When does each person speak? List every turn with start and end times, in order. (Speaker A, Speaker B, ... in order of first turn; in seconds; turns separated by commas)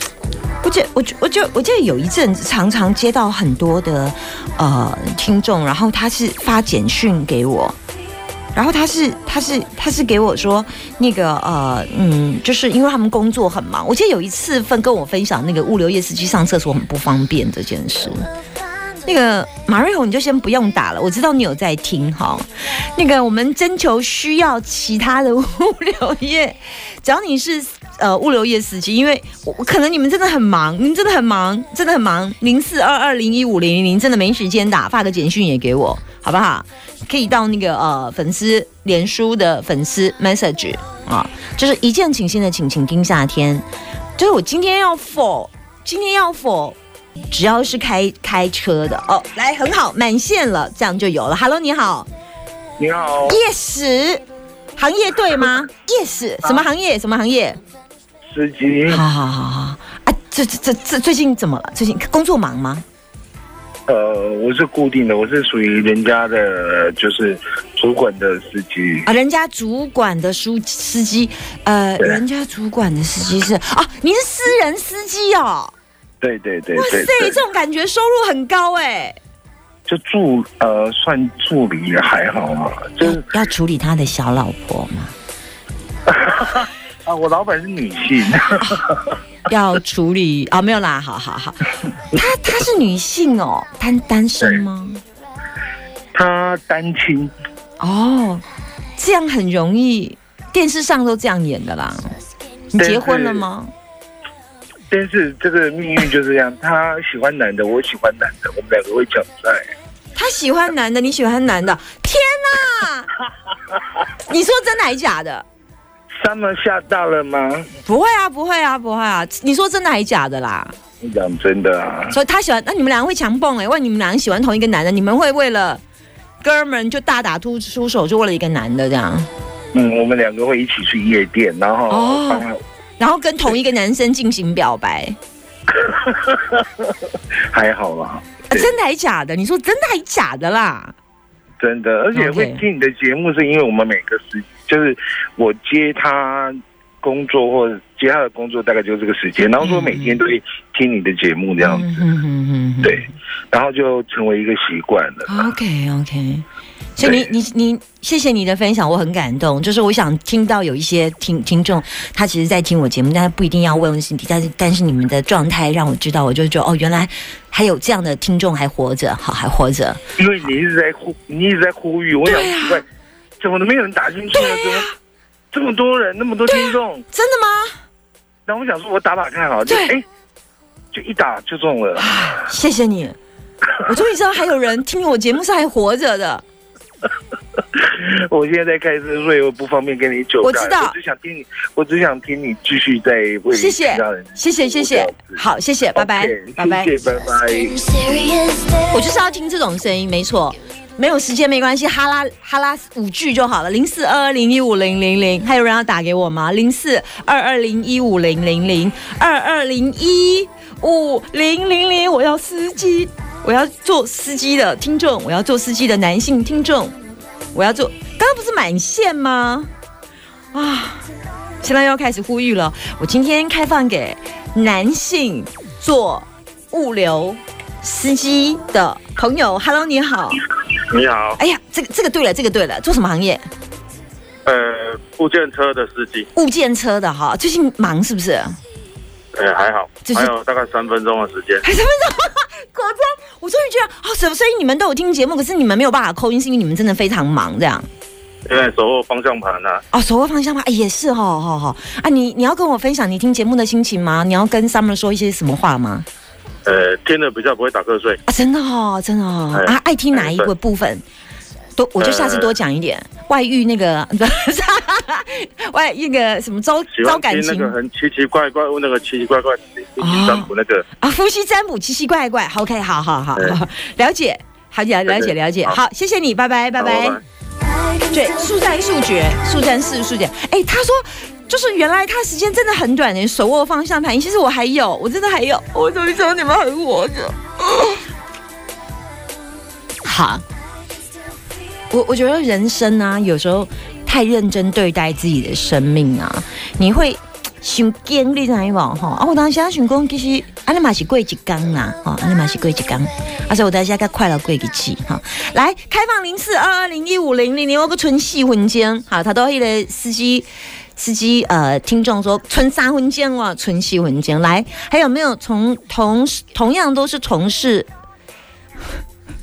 Speaker A: 0.6-7.8, Speaker A: 8.5-18.3, Speaker A: 19.0-43.6, Speaker A: 44.2-46.8, Speaker A: 47.3-52.1, Speaker B: 52.8-53.4, Speaker A: 53.3-54.2, Speaker A: 54.8-57.6, Speaker B: 58.3-59.0, Speaker A: 58.9-62.8, Speaker B: 63.9-69.0, Speaker A: 69.0-75.7, Speaker B: 76.2-77.4, Speaker A: 76.8-79.2, Speaker B: 79.9-83.2, Speaker A: 83.0-85.1, Speaker B: 86.1-89.0, Speaker A: 89.5-95.0, Speaker B: 96.1-97.3, Speaker A: 97.8-98.4, Speaker A: 99.0-102.1, Speaker A: 102.7-103.7, Speaker B: 102.8-103.5, Speaker B: 104.9-109.6, Speaker A: 110.2-113.1, Speaker A: 114.3-115.4, Speaker B: 116.1-117.7, Speaker A: 117.8-120.7, Speaker B: 121.0-122.2, Speaker A: 122.1-125.8, Speaker A: 126.4-129.3, Speaker B: 129.7-132.6, Speaker A: 131.9-132.5, Speaker A: 133.0-135.2, Speaker B: 135.8-136.6, Speaker B: 137.5-138.7, Speaker A: 138.5-140.9, Speaker B: 141.6-152.0, Speaker A: 142.1-142.6, Speaker A: 149.6-150.2, Speaker A: 151.6-153.1, Speaker B: 152.8-155.4, Speaker A: 155.3-156.4, Speaker A: 156.9-170.0, Speaker B: 157.0-157.3, Speaker B: 170.2-172.8, Speaker A: 172.2-172.8, Speaker B: 173.4-174.9, Speaker A: 174.3-174.9, Speaker B: 175.5-177.0, Speaker A: 176.5-177.8, Speaker B: 178.5-180.0, Speaker A: 179.7-179.9, Speaker B: 180.9-182.3, Speaker A: 182.0-183.2, Speaker A: 183.8-186.4, Speaker B: 187.8-195.4, Speaker A: 190.4-190.9, Speaker A: 193.5-196.9, Speaker B: 195.9-197.8, Speaker A: 198.9-216.9, Speaker A: 217.5-219.7, Speaker A: 220.5-221.1, Speaker A: 221.6-230.4, Speaker C: 230.9-231.4, Speaker A: 231.4-233.4, Speaker C: 234.4-236.3, Speaker A: 236.3-238.6, Speaker C: 239.3-241.6, Speaker A: 240.1-240.3, Speaker A: 241.6-247.9, Speaker C: 248.4-249.8, Speaker A: 249.9-256.1, Speaker C: 256.6-258.2, Speaker A: 258.3-261.0, Speaker C: 259.5-260.5, Speaker A: 261.8-267.7, Speaker C: 262.0-262.5, Speaker C: 266.9-270.8, Speaker A: 270.0-277.2, Speaker C: 275.1-275.8, Speaker C: 276.8-277.2, Speaker A: 278.1-288.0, Speaker A: 290.0-290.4, Speaker A: 291.9-317.9